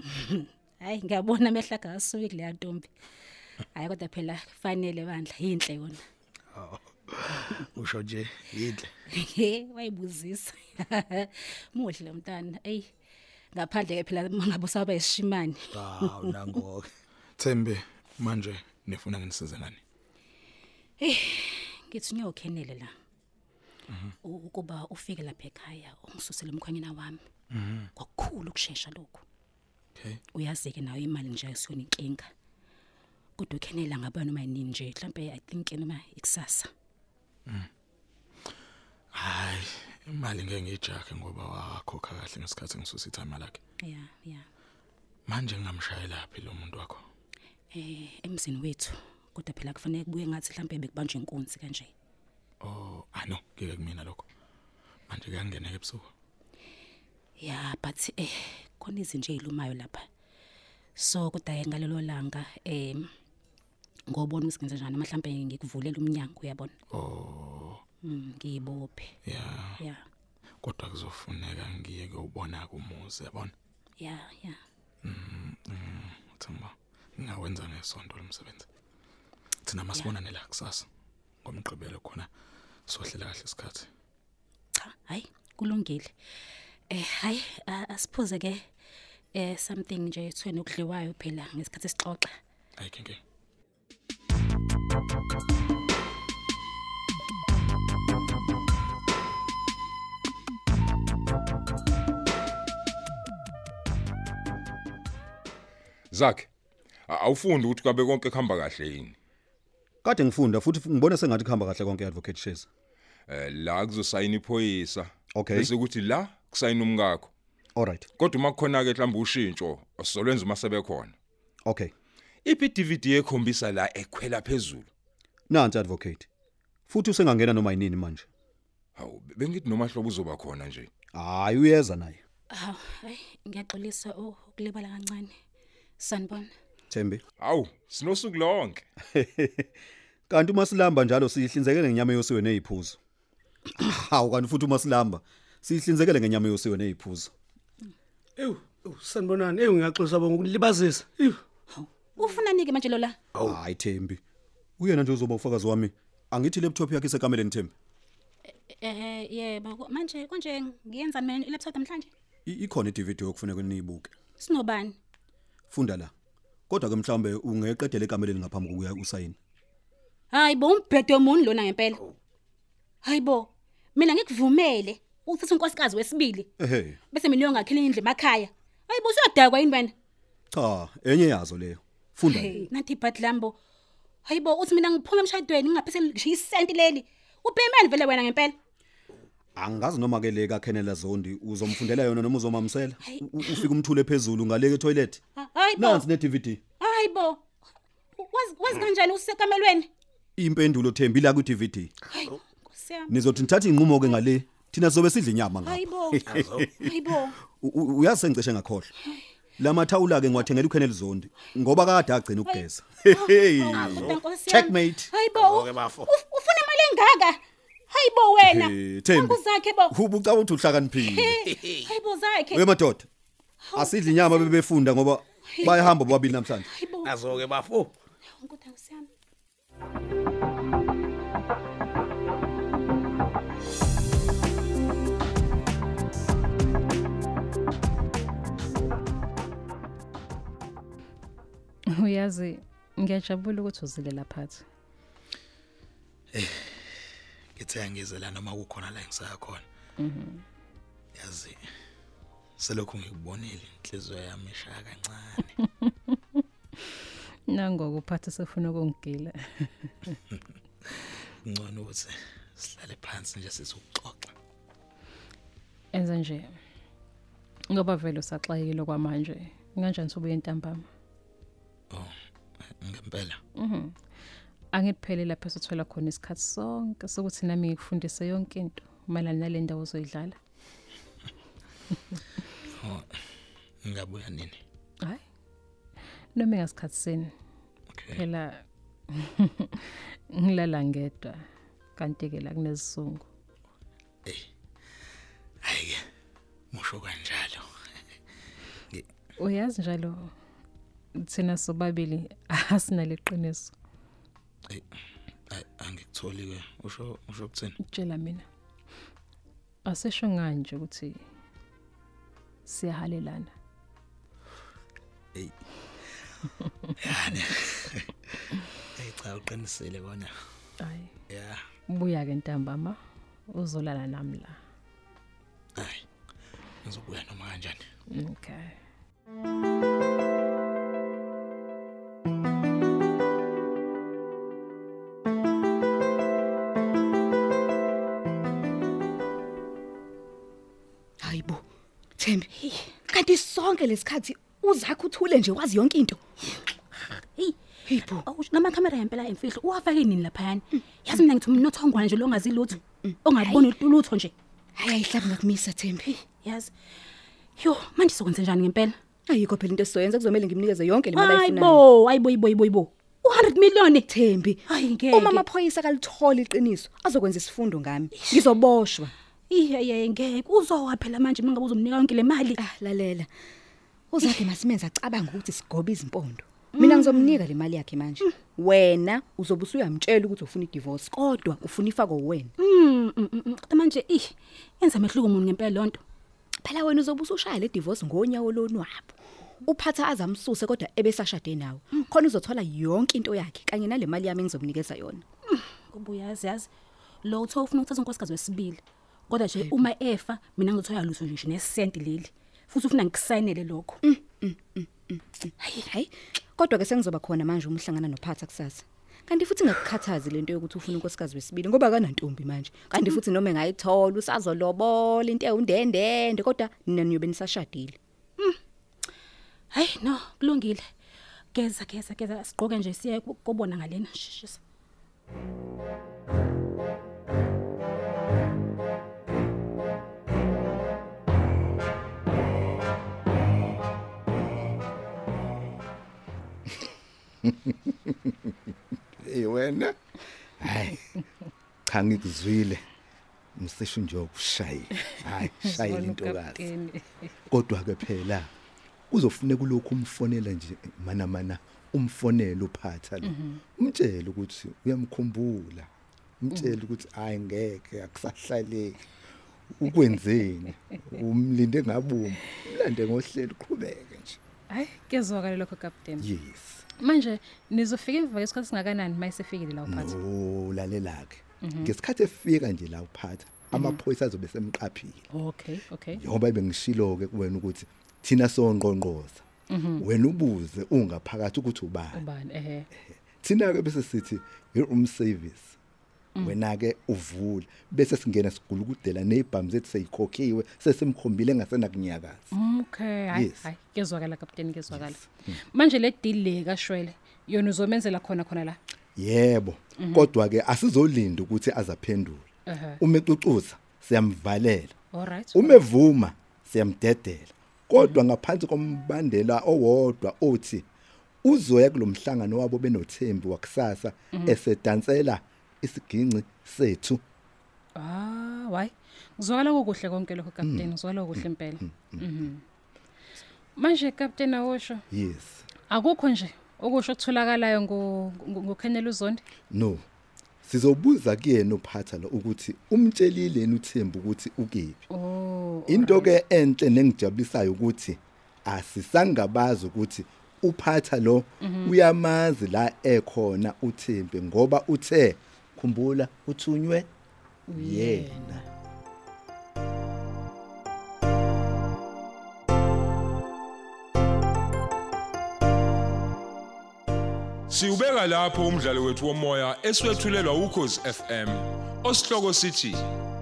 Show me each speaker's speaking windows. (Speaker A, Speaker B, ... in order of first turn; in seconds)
Speaker A: 0.1-2.9, 3.7-6.0, 9.1-12.9, 13.5-16.5, 21.0-22.9, 24.2-27.2, 27.9-29.2, 30.3-32.3, 33.4-36.7, 43.8-44.4, 47.7-51.9, 57.4-60.0, 61.0-63.0, 64.1-66.7, 68.0-69.1, 74.0-74.6, 84.8-86.1, 86.9-88.6, 89.3-92.3, 132.5-135.3, 136.0-136.5, 151.7-153.2, 158.7-162.1, 164.4-165.0, 170.3-172.0, 173.0-176.5, 177.1-179.9, 182.2-183.6, 184.2-188.6, 193.0-193.7, 195.4-196.1, 196.8-197.4, 198.2-199.9, 202.1-203.1, 205.6-207.3, 212.4-217.4, 217.9-219.9, 221.0-222.7, 223.7-224.5, 225.5-226.1, 226.6-227.1, 228.4-229.1, 342.6-342.9, 348.1-354.3, 356.1-356.7, 357.6-358.9, 361.1-364.1, 364.7-365.4, 368.1-368.6, 369.5-372.6, 376.8-377.4, 382.6-386.0, 395.5-396.7, 397.2-404.0, 405.6-405.9, 419.7-420.8, 421.5-424.6
Speaker B: 6.5-8.9, 15.8-16.7, 17.4-19.8, 23.9-24.1, 27.5-27.9, 39.1-43.6, 45.3-47.0, 52.6-54.2, 55.1-56.1, 66.9-67.8, 69.2-69.8, 70.6-73.5, 75.0-78.7, 79.6-80.9, 81.4-82.3, 82.9-83.9, 92.8-93.2, 246.3-246.7, 247.6-249.6, 251.1-251.6, 252.6-255.5, 261.4-264.3, 272.8-273.4, 282.8-283.1, 283.8-284.6, 287.9-288.2, 295.6-296.0, 296.7-297.6, 305.5-307.8, 317.0-318.1, 319.0-320.3, 321.3-321.6, 325.8-326.0, 326.8-327.8
Speaker C: 106.1-106.5, 107.1-109.1, 113.3-117.3, 118.2-121.1, 122.4-124.9, 129.0-130.9, 137.4-138.8, 557.7-563.0
Speaker D: 110.0-112.7, 115.3-115.7, 117.8-118.1, 121.7-121.9, 125.5-126.3, 126.9-128.3, 131.1-132.2, 136.9-137.2, 139.1-139.7, 140.3-143.0, 143.8-147.3, 153.4-154.2, 154.8-157.7, 162.4-164.1, 165.7-166.1, 166.7-169.4, 176.6-177.0, 180.5-182.6, 189.6-195.2, 195.8-196.6, 200.4-201.9, 203.1-206.9, 207.6-208.9, 209.6-215.1, 218.4-221.4, 222.5-223.1, 223.7-226.7
Speaker E: 148.4-151.4, 215.5-216.1, 227.1-227.9
Speaker F: 241.9-244.6, 250.0-250.4, 255.8-256.1, 257.5-259.9, 265.9-266.5, 267.7-270.9, 273.6-273.9, 274.7-280.4, 286.3-287.3, 288.1-291.4, 291.9-293.3, 299.4-300.3, 301.2-303.7, 307.8-308.4, 309.9-311.2, 312.6-313.5, 320.8-321.1, 321.9-323.0, 323.5-324.6, 328.1-328.7, 445.6-447.3, 453.2-453.6, 464.7-466.3, 467.0-470.1, 471.6-471.9, 473.7-474.0, 475.3-476.2, 479.7-480.1, 482.1-482.9, 492.5-498.8, 500.0-500.3, 502.7-503.0, 505.1-505.8, 508.0-508.2, 514.3-514.6, 518.0-522.6, 523.8-525.0, 525.9-529.4, 535.1-536.3, 541.6-542.0, 547.7-548.6
Speaker G: 341.2-341.6, 342.2-342.5, 343.1-346.2, 347.9-348.2, 353.0-353.7, 354.8-356.2, 359.3-361.8, 364.1-369.1, 372.6-373.3, 374.1-382.5, 386.6-395.2, 399.6-399.9, 404.0-418.0
Speaker H: 437.4-438.5, 439.2-439.9, 440.6-441.2, 441.9-442.8, 443.6-446.7, 447.5-448.5, 449.1-455.9, 456.4-459.0, 459.7-464.4, 466.2-466.8, 469.9-475.2, 476.1-479.4, 480.0-482.2, 483.0-485.8, 486.4-492.5, 493.3-493.7, 494.9-495.5, 499.1-502.5, 503.0-504.9, 505.5-510.9, 511.4-517.2, 520.6-522.4, 525.1-525.6, 529.7-530.0, 530.6-535.0, 535.9-547.1, 547.7-548.6